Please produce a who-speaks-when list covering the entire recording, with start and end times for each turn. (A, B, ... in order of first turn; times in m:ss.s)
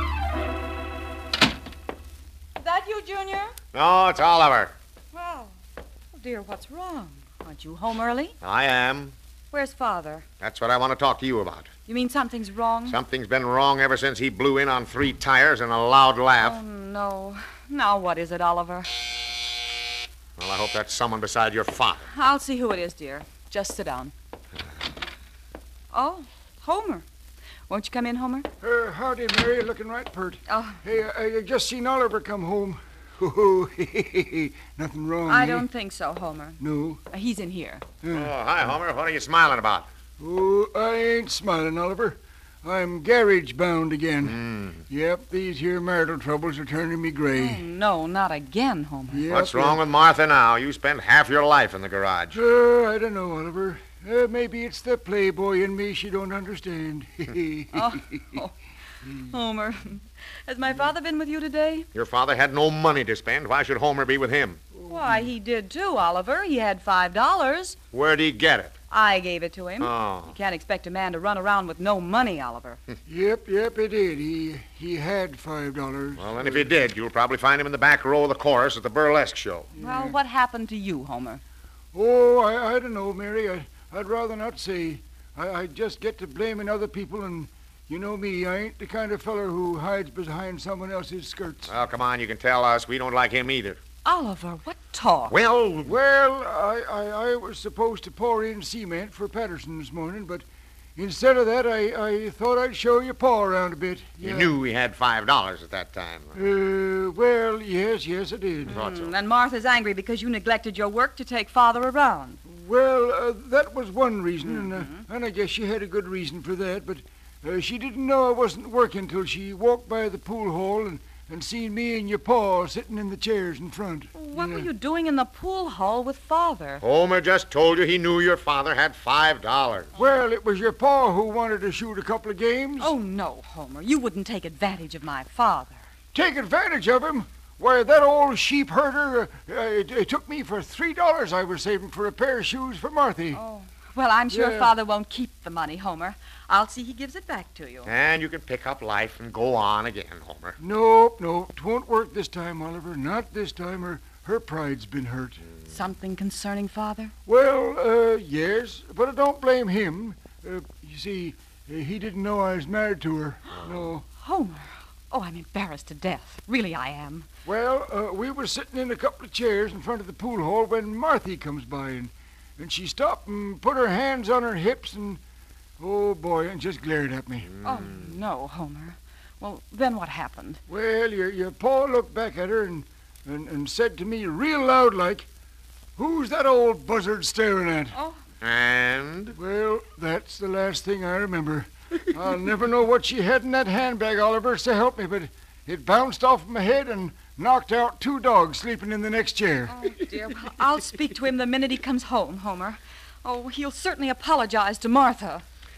0:02.6-0:03.6 A
0:03.7-0:04.8 B
0:05.1-0:05.6 A
0:06.1-0:08.4 A
0:08.4-0:09.2 B
0:09.5-0:10.3 A
0:10.4-0:11.7 B
0:11.9-0:13.0 A
0:12.9-0:16.6 B
0:16.4-0:18.9 A
0:20.4-0:22.1 B
0:22.1-0:24.1 A
0:25.9-0:27.0 A
0:27.7-0:28.5 A
0:28.6-0:35.7 C
0:30.5-0:30.8 A
0:35.3-0:37.8 A
0:36.6-0:37.0 C
0:38.0-0:38.3 C
0:38.1-0:39.9 B
0:40.2-0:47.6 C
0:44.2-0:44.8 B
0:47.4-0:49.2 A
0:49.1-0:49.8 C
0:49.3-0:52.4 B
0:52.3-0:58.2 C
0:57.7-0:58.6 A
0:59.2-1:01.9 A
1:01.9-1:04.6 B
1:04.7-1:05.3 C
1:04.9-1:07.8 A
1:07.9-1:08.8 B
1:08.9-1:12.8 A
1:09.8-1:10.4 B
1:13.1-1:16.7 C
1:16.2-1:19.7 B
1:19.8-1:20.2 C
1:19.8-1:21.4 A
1:21.9-1:31.7 C
1:31.7-1:33.8 B
1:34.0-1:35.4 A
1:35.3-1:36.0 B
1:35.8-1:40.4 C
1:41.0-1:44.5 C
1:44.2-1:46.4 B
1:46.3-1:48.8 C
1:48.6-1:49.1 B
1:48.7-1:52.4 A
1:52.5-2:04.7 C
1:54.4-1:55.0 A
2:04.1-2:06.8 A
2:06.8-2:09.9 B
2:10.0-2:12.9 C
2:12.8-2:15.8 A
2:16.1-2:23.4 C
2:23.3-2:27.9 A
2:24.3-2:24.7 C
2:27.9-2:30.6 B
2:30.6-2:35.4 C
2:35.7-2:37.1 A
2:37.3-2:44.0 C
2:43.6-2:43.9 B
2:44.1-2:47.3 A
2:47.5-2:55.2 C
2:55.8-2:57.5 C
2:57.4-2:58.1 B
2:57.6-3:00.6 A
3:00.7-3:05.3 C
3:06.0-3:07.9 C
3:07.9-3:08.2 A
3:08.4-3:09.4 B
3:09.4-3:19.8 C
3:19.7-3:25.4 A